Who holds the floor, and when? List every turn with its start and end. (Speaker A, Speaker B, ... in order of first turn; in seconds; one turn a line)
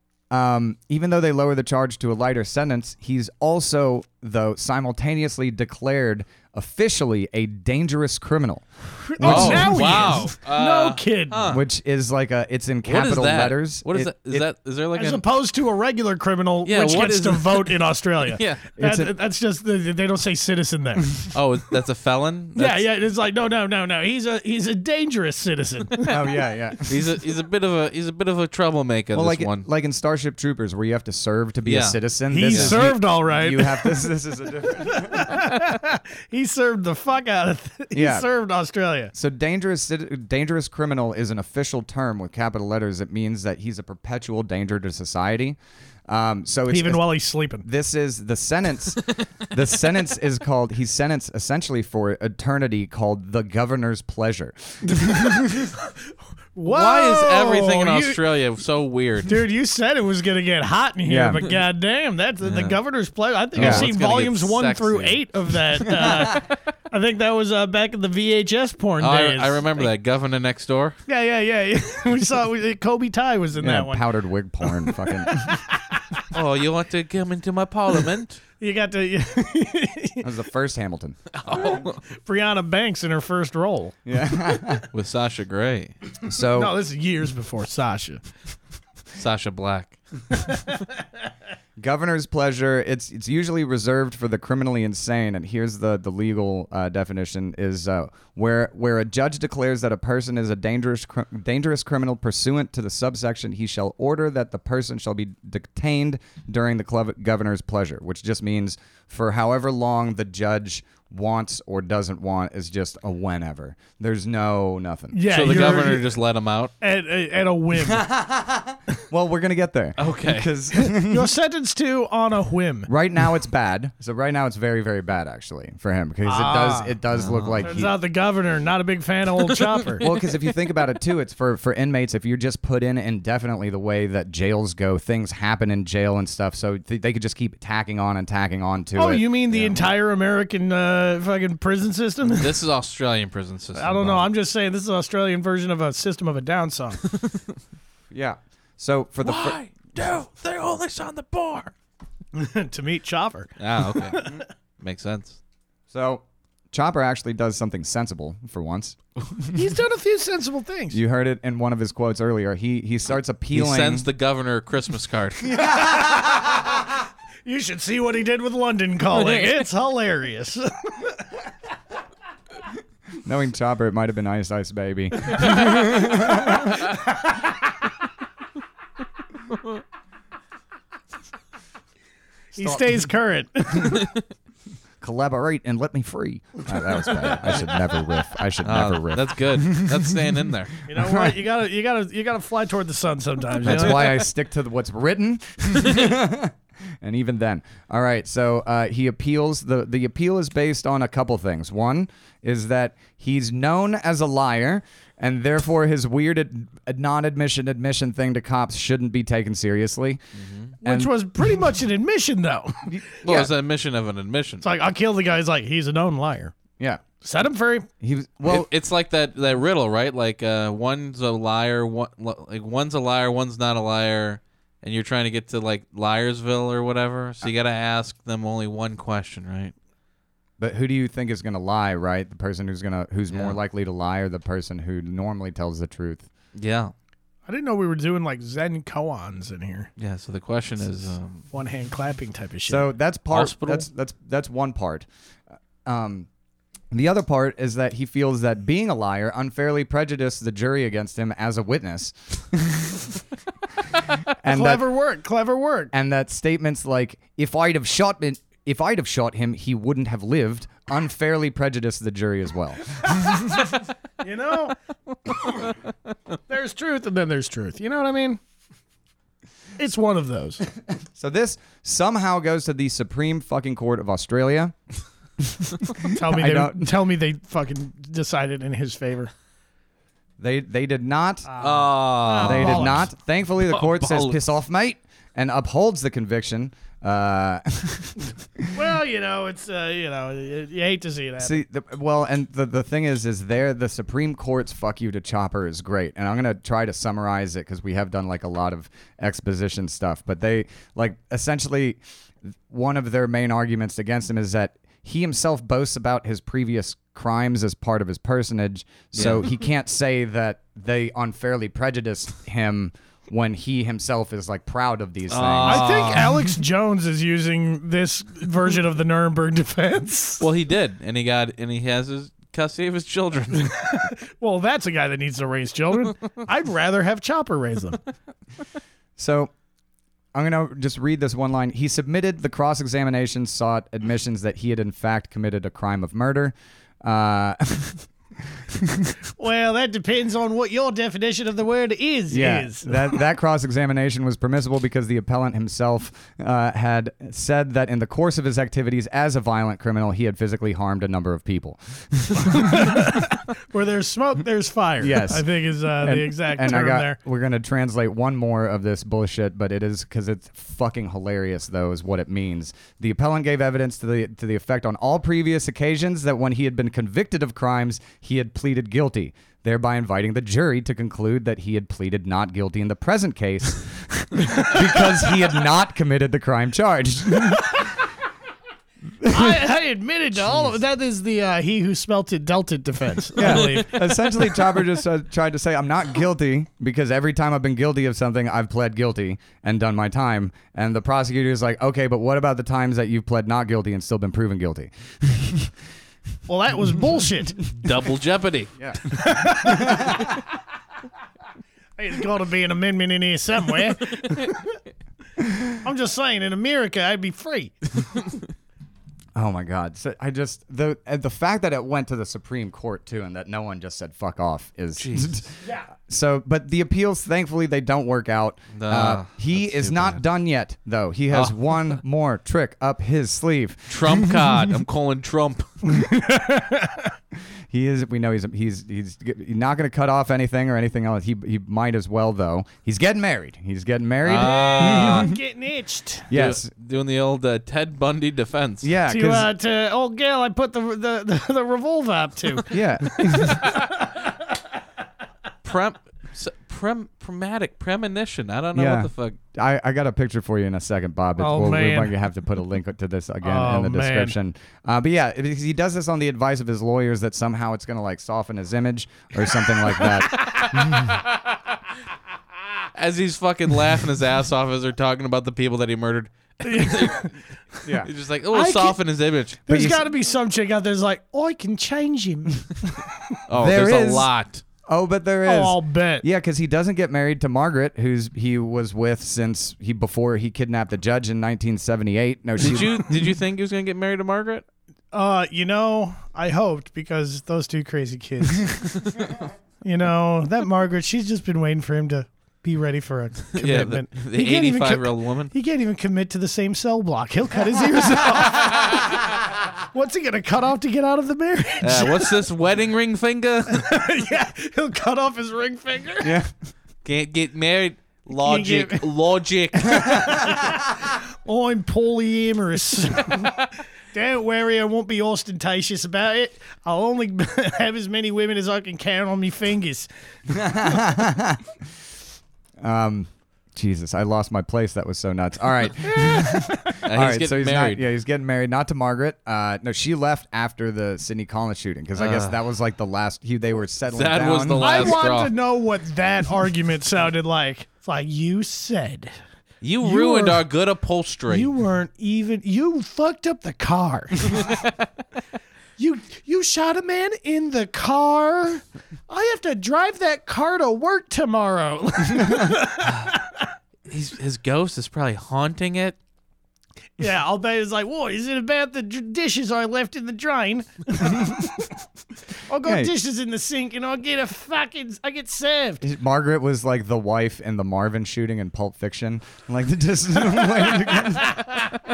Speaker A: 0.3-10.2
Speaker B: 9.1-11.5
Speaker C: 9.2-11.6
Speaker A: 11.5-14.5
Speaker C: 12.9-15.2
Speaker B: 14.9-21.2
Speaker C: 16.6-18.7
Speaker A: 18.8-19.1
Speaker C: 21.3-22.9
Speaker B: 22.6-26.1
Speaker A: 26.1-27.0
Speaker C: 26.9-29.7
Speaker A: 29.1-35.3
Speaker C: 31.7-32.0
Speaker B: 32.3-34.0
Speaker C: 32.5-32.8
Speaker B: 35.0-39.1
Speaker A: 37.9-38.3
Speaker A: 39.1-45.6
Speaker A: 46.1-47.1
Speaker B: 46.7-47.7
Speaker A: 47.6-55.5
Speaker B: 55.0-55.7
Speaker B: 56.5-58.2
Speaker C: 56.7-59.4
Speaker B: 59.3-69.9
Speaker A: 61.1-61.4
Speaker C: 62.4-62.8
Speaker C: 63.5-66.0
Speaker A: 63.6-63.9
Speaker C: 69.0-71.0
Speaker B: 71.1-74.1
Speaker A: 73.6-75.5
Speaker B: 74.7-76.2
Speaker C: 76.3-78.4
Speaker B: 78.6-80.2
Speaker A: 80.2-81.2
Speaker C: 81.4-82.0
Speaker B: 81.5-84.0
Speaker A: 84.1-84.9
Speaker C: 84.9-86.0
Speaker A: 86.2-86.7
Speaker B: 86.5-88.2
Speaker C: 89.2-90.0
Speaker A: 91.8-115.2
Speaker B: 115.1-116.2
Speaker C: 115.3-116.7
Speaker B: 116.8-118.1
Speaker A: 118.0-121.2
Speaker C: 120.0-120.5
Speaker B: 120.8-122.9
Speaker A: 122.9-128.0
Speaker B: 126.3-127.0
Speaker C: 127.1-127.7
Speaker B: 127.6-130.0
Speaker A: 130.0-139.9
Speaker B: 139.0-142.5
Speaker C: 142.3-144.3
Speaker B: 143.8-147.1
Speaker A: 148.1-149.6
Speaker C: 149.2-151.7
Speaker B: 152.3-154.4
Speaker C: 153.6-154.2
Speaker C: 154.8-155.4
Speaker A: 155.9-159.5
Speaker B: 159.5-161.0
Speaker A: 160.9-164.1
Speaker C: 163.5-165.5
Speaker B: 165.5-166.7
Speaker B: 167.4-171.1
Speaker C: 169.2-169.5
Speaker A: 173.2-176.7
Speaker B: 182.5-184.1
Speaker A: 182.6-183.0
Speaker A: 185.0-189.9
Speaker C: 188.6-190.8
Speaker B: 190.9-194.2
Speaker A: 190.9-191.4
Speaker A: 193.6-210.2
Speaker C: 210.4-210.7
Speaker B: 210.8-212.9
Speaker A: 210.8-211.1
Speaker A: 212.9-213.5
Speaker C: 213.2-214.7
Speaker B: 214.6-216.6
Speaker B: 217.2-217.9
Speaker A: 218.0-218.7
Speaker C: 218.4-229.7
Speaker A: 230.6-236.3
Speaker C: 233.3-233.6
Speaker C: 236.6-236.9
Speaker B: 237.5-239.9
Speaker C: 240.0-241.4
Speaker B: 241.5-242.9
Speaker A: 242.7-245.1
Speaker C: 243.3-243.8
Speaker A: 245.8-246.3
Speaker A: 246.9-253.0
Speaker A: 254.4-254.8
Speaker B: 254.5-255.9
Speaker A: 255.9-263.2
Speaker B: 264.2-264.8
Speaker B: 265.3-265.6
Speaker B: 266.5-268.4
Speaker B: 269.8-270.6
Speaker A: 271.1-274.8
Speaker A: 275.6-276.9
Speaker B: 276.1-279.3
Speaker A: 280.4-281.5
Speaker B: 281.5-283.1
Speaker C: 281.6-283.0
Speaker A: 282.4-288.7
Speaker C: 283.6-284.4
Speaker B: 288.7-291.6
Speaker A: 291.4-302.0
Speaker A: 302.7-316.0
Speaker C: 309.1-309.5
Speaker C: 315.3-316.5
Speaker B: 315.6-320.4
Speaker C: 320.4-323.8
Speaker B: 323.6-328.0
Speaker A: 329.2-329.5
Speaker A: 330.3-338.1
Speaker B: 339.4-343.1
Speaker A: 342.3-352.9
Speaker B: 352.5-357.2
Speaker A: 355.0-355.5
Speaker A: 356.0-377.7
Speaker A: 379.2-379.6
Speaker B: 379.3-384.3
Speaker A: 383.4-395.7
Speaker B: 396.5-397.6
Speaker C: 397.7-398.7
Speaker B: 399.1-400.3
Speaker A: 399.7-399.9
Speaker B: 402.0-404.8
Speaker B: 405.8-407.8
Speaker A: 409.4-424.3
Speaker C: 415.0-415.4
Speaker C: 418.7-420.2
Speaker C: 421.3-422.0
Speaker C: 423.9-425.7
Speaker B: 425.9-427.1
Speaker A: 427.7-435.3
Speaker C: 434.2-435.3
Speaker B: 434.3-436.3
Speaker A: 436.3-436.7
Speaker C: 436.3-438.9
Speaker A: 438.8-439.5
Speaker B: 439.1-444.1
Speaker A: 442.7-443.6
Speaker C: 445.6-449.4
Speaker A: 448.8-461.0
Speaker B: 451.4-452.1
Speaker B: 453.4-454.4
Speaker C: 462.9-467.3
Speaker B: 466.6-467.3
Speaker C: 468.0-469.9
Speaker B: 468.5-469.0
Speaker B: 469.7-473.0
Speaker C: 473.5-474.6
Speaker A: 473.6-474.3
Speaker A: 474.9-483.1
Speaker B: 475.5-476.2
Speaker C: 482.6-484.6
Speaker B: 485.1-489.0
Speaker B: 489.8-499.2
Speaker C: 493.6-495.5
Speaker B: 499.9-502.4
Speaker C: 501.8-503.9
Speaker B: 503.7-506.3
Speaker A: 506.2-506.5
Speaker C: 507.1-510.3
Speaker B: 508.4-509.1
Speaker B: 509.8-513.6
Speaker B: 514.1-520.1
Speaker A: 520.5-521.6
Speaker A: 522.8-535.2
Speaker B: 526.0-527.0
Speaker C: 527.0-528.0
Speaker C: 532.2-532.6
Speaker C: 534.1-535.5
Speaker B: 534.8-539.3
Speaker C: 539.8-541.7
Speaker B: 540.0-540.6
Speaker B: 541.5-544.7
Speaker B: 546.0-553.4
Speaker C: 553.0-553.3
Speaker C: 554.1-556.2
Speaker B: 557.2-561.9
Speaker B: 562.7-566.0
Speaker A: 562.8-563.1
Speaker A: 566.0-571.6